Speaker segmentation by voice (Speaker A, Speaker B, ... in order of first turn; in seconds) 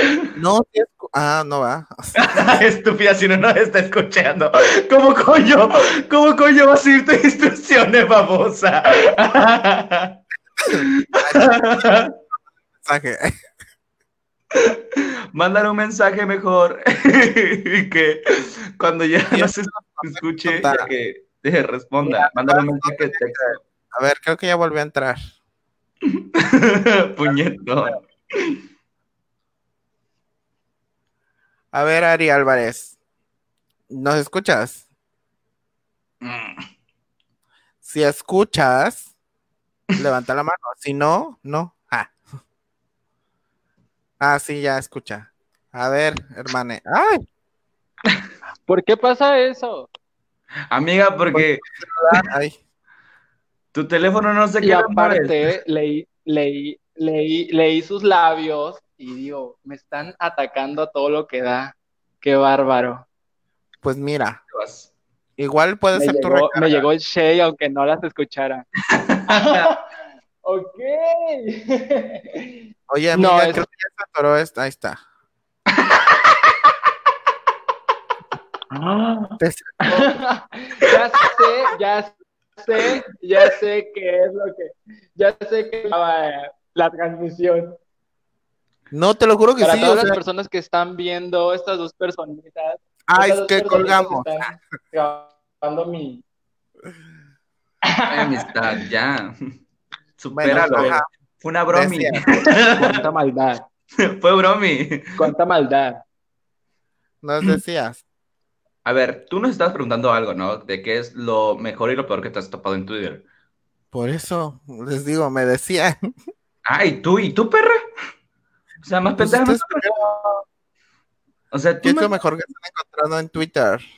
Speaker A: 0.4-2.6, 10.7-12.1, 12.8-13.3, 19.3-20.9, 22.0-25.2, 31.7-33.0, 33.9-34.9, 37.8-39.1, 40.0-42.2, 44.2-47.2, 51.3-52.6, 63.8-64.4, 65.4-66.8, 72.9-75.0, 79.4-80.1, 88.9-90.2, 93.1-94.3, 100.3-101.1, 101.7-102.2, 107.2-108.0, 113.9-116.1, 119.2-120.4, 121.8-123.8
Speaker B: 2.1-10.2, 10.7-12.1, 14.6-23.6, 26.2-28.6, 36.2-36.7, 50.7-51.6, 53.7-55.5, 64.5-64.9, 68.9-69.7, 98.1-99.6, 100.2-103.0, 104.0-105.3, 108.8-113.2, 116.7-117.8, 118.8-119.9, 121.5-122.2
Speaker C: 48.7-49.9, 54.6-63.1, 65.9-68.7, 69.3-69.8, 70.4-72.6, 73.2-73.6, 78.7-87.8, 89.6-96.2, 97.9-98.5, 100.5-101.0, 102.8-103.7, 105.2-106.0